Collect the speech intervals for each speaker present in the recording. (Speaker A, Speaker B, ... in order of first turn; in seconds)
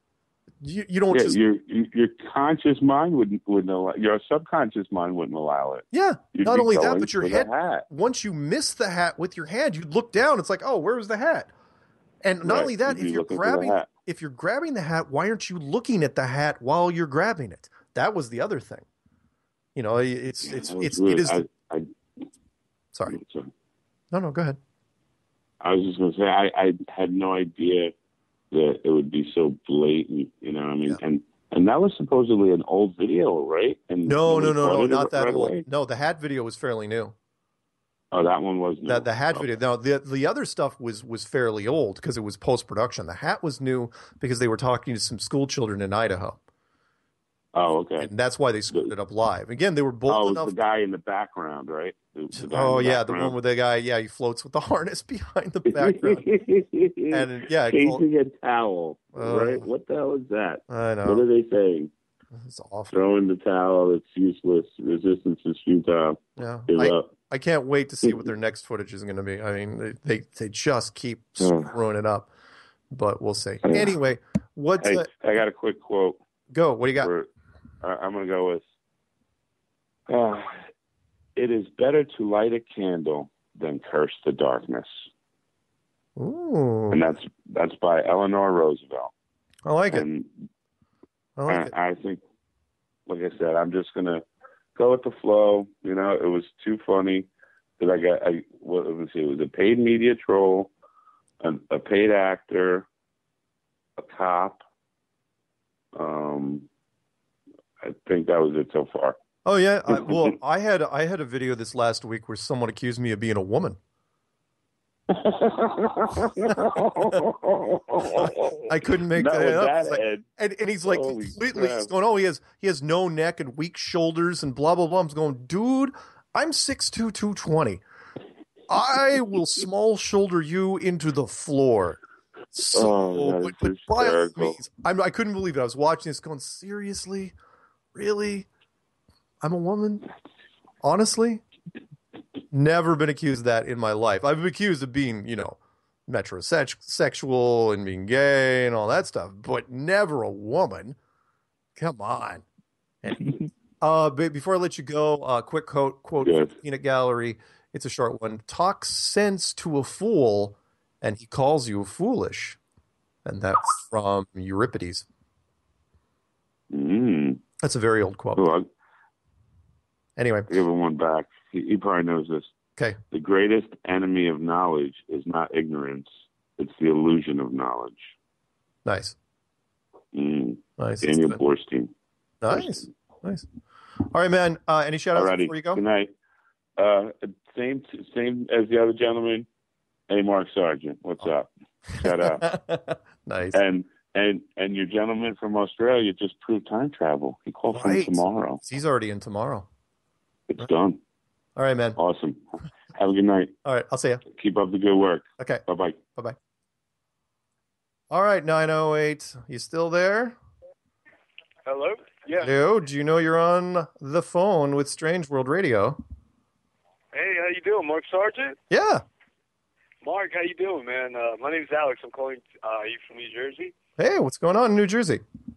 Speaker A: 0.6-1.4, 5.9-11.5, 12.2-18.9, 19.8-21.5, 22.9-23.2, 24.1-24.6, 34.0-37.1, 38.9-46.4, 48.0-50.6, 52.4-56.3, 57.1-58.0, 59.1-59.7, 60.7-61.2, 62.3-63.0, 66.4-72.3, 72.9-75.1, 76.5-77.1, 86.2-87.0, 89.7-90.0, 91.4-91.7, 109.5-113.8, 116.4-117.2, 118.0-127.8, 128.7-132.0, 132.5-137.3, 137.9-138.5, 139.4-140.1, 140.8-141.4, 142.5-151.0, 151.8-152.4, 153.0-162.6, 163.2-165.1, 167.6-168.5, 170.2-170.5, 178.8-179.2, 180.8-181.4, 182.4-183.5, 184.1-185.8, 191.9-193.6, 197.7-199.7, 201.6-202.0, 203.6-204.2, 205.4-205.6, 208.1-210.4, 212.4-216.0, 218.7-219.0, 224.0-225.2
Speaker B: 1.1-7.9, 12.4-13.9, 20.4-21.9, 23.1-23.5, 25.6-27.9, 28.5-35.6, 38.1-39.5, 47.5-48.1, 50.1-53.4, 55.7-61.9, 62.9-67.1, 71.4-71.7, 73.6-74.0, 74.8-76.2, 77.0-77.3, 77.8-78.7, 80.1-80.5, 81.4-85.0, 86.9-89.1, 89.9-90.3, 91.5-92.2, 93.1-94.2, 94.8-100.7, 101.4-102.9, 104.0-104.6, 106.0-106.7, 107.8-109.2, 115.1-120.3, 120.8-121.9, 132.7-134.6, 156.2-156.5, 166.7-167.4, 168.3-168.7, 170.5-172.5, 173.1-178.1, 180.1-181.9, 182.5-182.8, 185.2-186.1, 186.8-189.5, 190.1-192.5, 193.5-198.6, 200.5-201.0, 202.0-202.4, 203.0-203.6, 204.3-206.0
Speaker C: 211.7-212.5, 217.1-218.6, 220.0-223.7